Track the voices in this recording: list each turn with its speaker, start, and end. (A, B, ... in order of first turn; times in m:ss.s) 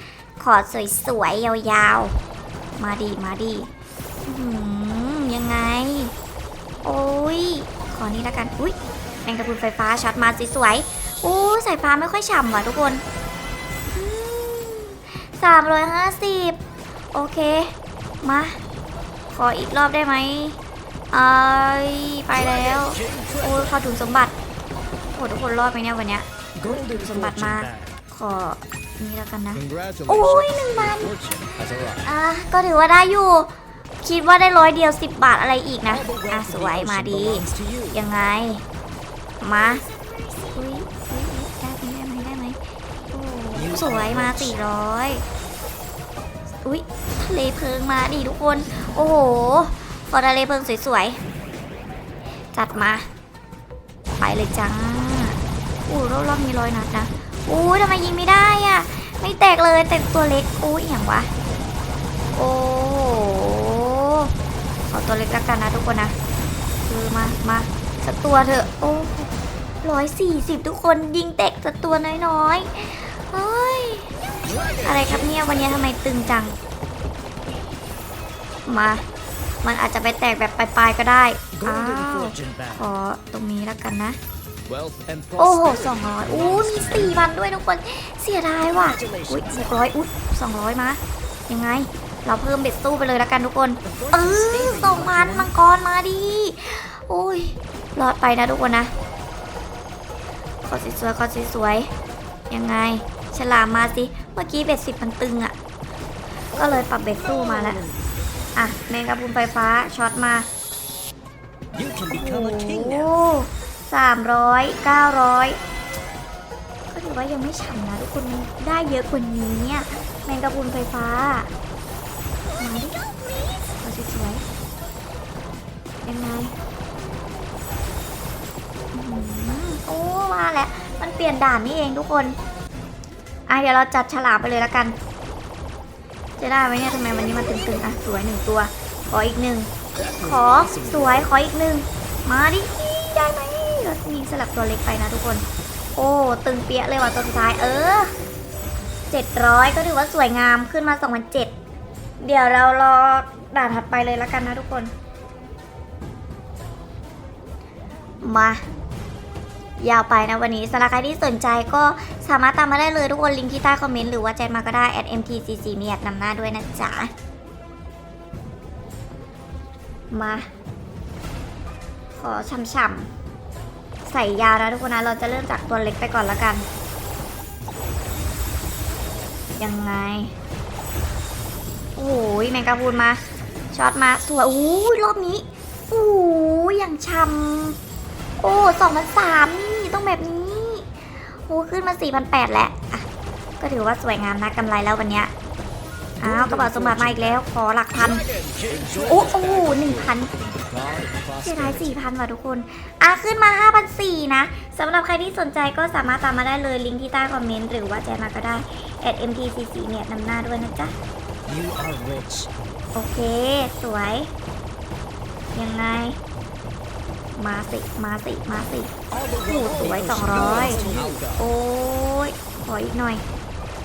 0:00.4-0:02.2 A
0:02.8-0:03.7 A
0:04.3-0:06.1 A
0:06.8-0:13.0 A
0:13.9-0:16.6 A
0:17.1-0:18.6 A
0:19.3-0:20.6 A
0:21.1-0:24.3 A
0:22.5-0:23.7 B
0:25.1-0:31.2 A
0:26.6-0:27.9 B
0:29.6-0:32.0 B
0:32.0-0:33.5 A
0:34.0-0:38.6 A
0:35.9-0:38.0 B
0:39.4-0:39.9 A
0:40.5-0:42.6 A
0:43.1-0:45.2 A
0:43.6-0:44.6 B
0:46.6-0:51.2 A
0:52.5-0:53.1 A
0:54.2-1:01.3 A
1:02.4-1:04.3 A
1:04.9-1:06.1 A
1:06.8-1:09.3 A
1:09.8-1:14.1 A
1:14.8-1:16.6 A
1:18.7-1:19.0 A
1:19.6-1:24.2 A
1:21.6-1:22.8 B
1:24.7-1:27.2 B
1:25.4-1:38.9 A
1:28.9-1:29.8 B
1:33.9-1:35.5 B
1:40.6-1:41.9 A
1:42.5-1:45.5 A
1:46.5-1:47.8 A
1:48.6-1:50.5 A
1:51.8-1:53.1 B
1:52.1-1:55.6 A
1:56.9-2:01.5 A
2:02.6-2:03.1 A
2:03.7-2:04.4 A
2:06.0-2:06.5 A
2:08.9-2:12.4 A
2:13.5-2:15.0 A
2:16.4-2:25.4 A
2:20.2-2:21.2 B
2:26.0-2:28.1 A
2:29.1-2:31.5 A
2:32.2-2:34.9 A
2:38.2-2:38.6 A
2:39.8-2:47.1 A
2:50.1-2:50.5 A
2:52.2-2:53.1 A
2:54.1-2:56.6 A
2:59.6-3:00.3 A
3:02.0-3:03.2 A
3:03.7-3:07.8 A
3:08.4-3:13.1 A
3:13.6-3:15.3 A
3:16.2-3:18.3 A
3:16.2-3:17.4 B
3:18.3-3:21.9 B
3:19.0-3:20.3 A
3:21.4-3:31.0 A
3:31.5-3:32.5 B
3:33.0-3:34.3 A
3:35.6-3:36.2 A
3:37.4-3:38.9 A
3:39.1-3:41.4 B
3:39.5-3:43.2 A